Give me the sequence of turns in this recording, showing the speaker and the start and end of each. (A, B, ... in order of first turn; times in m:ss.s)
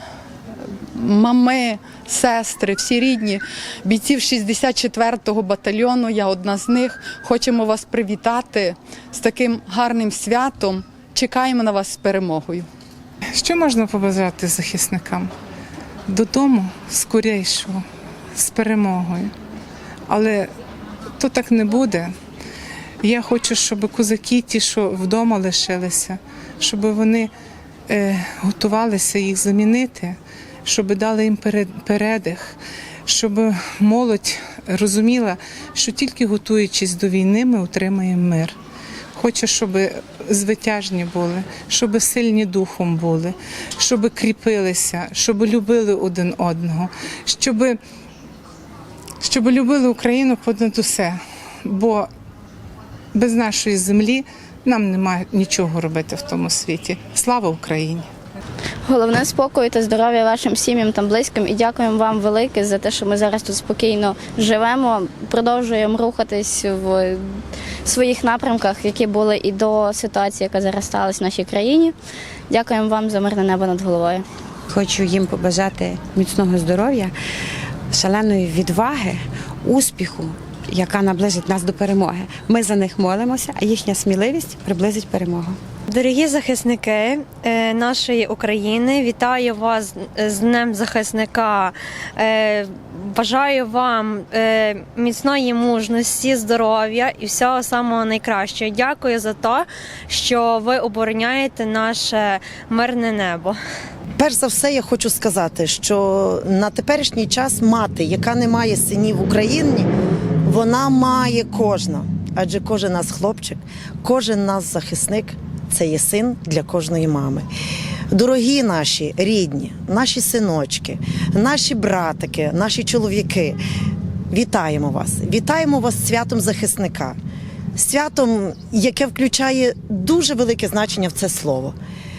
0:00.9-0:12.7 A
0:13.3-0:15.3 B
0:16.1-0:17.8 B
0:18.4-0:19.3 B
0:20.1-0:20.5 B
0:21.2-0:22.1 B
0:23.0-0:27.3 B
0:27.9-0:38.6 B
0:39.2-0:47.8 B
0:49.2-0:52.1 B
0:53.1-0:58.1 B
0:58.9-1:07.2 C
1:07.8-1:12.0 C
1:12.5-1:14.2 C
1:14.8-1:17.1 D
1:18.0-1:19.2 D
1:19.7-1:25.5 D
1:25.9-1:43.6 E
1:44.2-1:49.9 F
1:50.4-1:57.5 F
1:58.1-2:03.6 F
2:04.3-2:07.2 F
2:07.8-2:11.8 F